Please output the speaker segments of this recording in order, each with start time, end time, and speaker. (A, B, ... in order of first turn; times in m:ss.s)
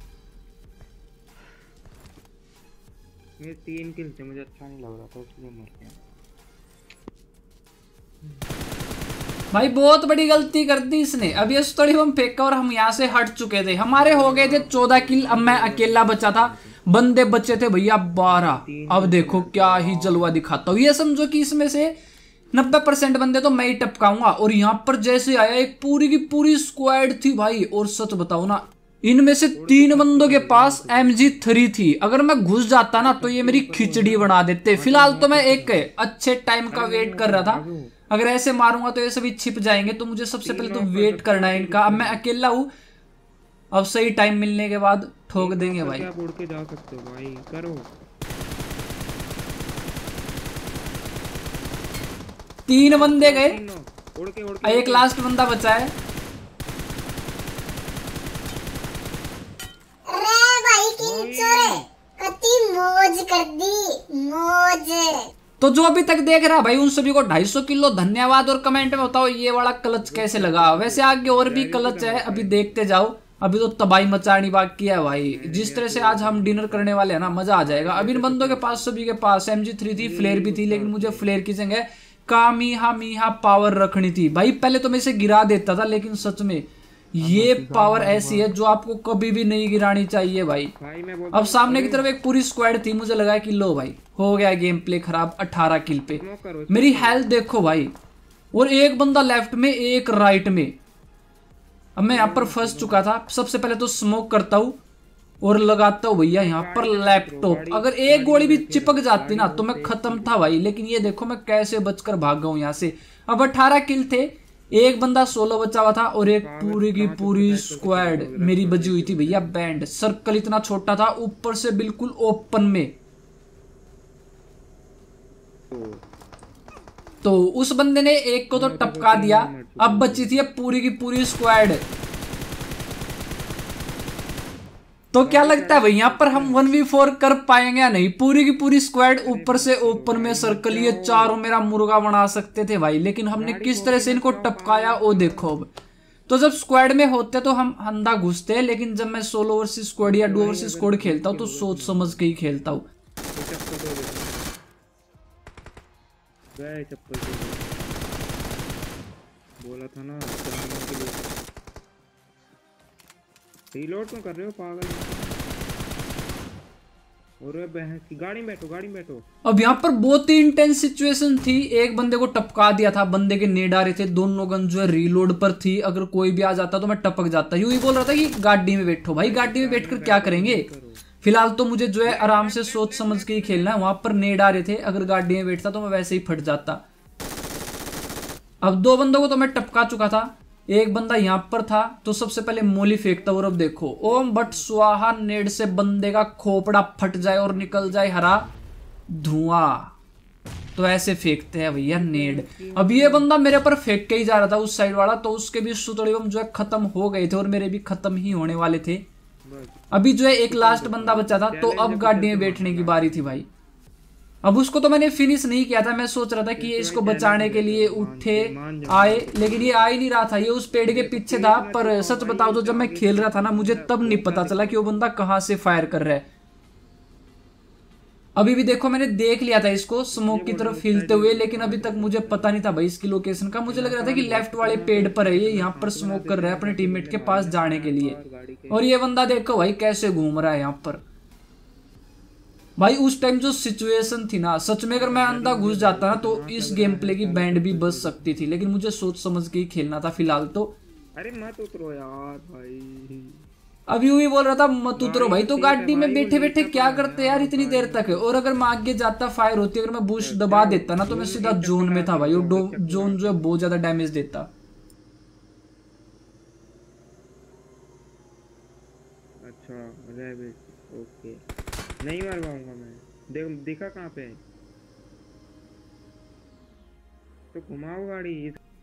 0:03.4-0:06.0 A
0:09.5-0:21.9 B
0:13.9-0:16.8 A
0:18.3-0:20.4 A
0:22.5-0:42.7 B
0:29.5-0:31.4 A
0:33.0-0:35.9 A
0:36.7-0:37.9 A
0:40.4-0:42.2 A
0:43.7-0:46.1 B
0:45.4-0:47.9 A
0:52.7-0:53.6 B
0:52.8-0:55.1 A
0:54.6-0:55.9 B
1:00.1-1:05.3 C
1:01.0-1:01.9 A
1:05.6-1:30.7 B
1:10.0-1:12.8 A
1:15.3-1:18.9 A
1:20.0-1:21.3 A
1:27.2-1:28.6 A
1:30.8-1:32.1 A
1:31.3-1:37.9 B
1:36.1-1:37.3 A
1:38.5-1:40.8 B
1:42.0-1:44.8 B
1:42.1-1:43.1 A
1:45.4-2:02.9 B
1:46.3-1:50.7 A
1:56.2-1:59.5 A
2:05.7-2:06.0 A
2:07.2-2:11.8 B
2:08.5-2:10.4 A
2:15.1-2:25.7 B
2:15.2-2:16.7 A
2:19.2-2:21.4 A
2:23.3-2:25.6 A
2:26.3-2:32.9 B
2:30.0-2:32.3 A
2:33.3-2:34.5 A
2:36.6-2:37.7 A
2:39.6-2:41.2 A
2:43.7-2:45.4 A
2:47.4-2:49.2 A
2:49.5-3:00.7 B
2:59.2-3:01.1 A
3:01.2-3:06.8 B
3:02.0-3:04.2 A
3:08.6-3:18.4 B
3:13.0-3:14.7 A
3:17.2-3:18.7 A
3:19.1-3:19.9 B
3:20.8-3:29.0 B
3:21.8-3:23.4 A
3:29.4-3:29.8 A
3:29.9-3:33.5 B
3:30.5-3:33.4 A
3:34.4-3:46.2 B
3:36.6-3:39.9 A
3:40.9-3:44.8 A
3:48.4-3:58.2 B
3:50.1-3:52.6 A
3:53.7-3:58.9 A
3:58.7-4:01.0 B
4:02.8-4:10.8 B
4:04.9-4:08.4 A
4:11.2-4:13.4 A
4:13.9-4:24.5 B
4:15.0-4:18.3 A
4:20.2-4:23.4 A
4:29.5-4:31.4 A
4:32.0-4:34.4 A
4:37.5-4:38.6 A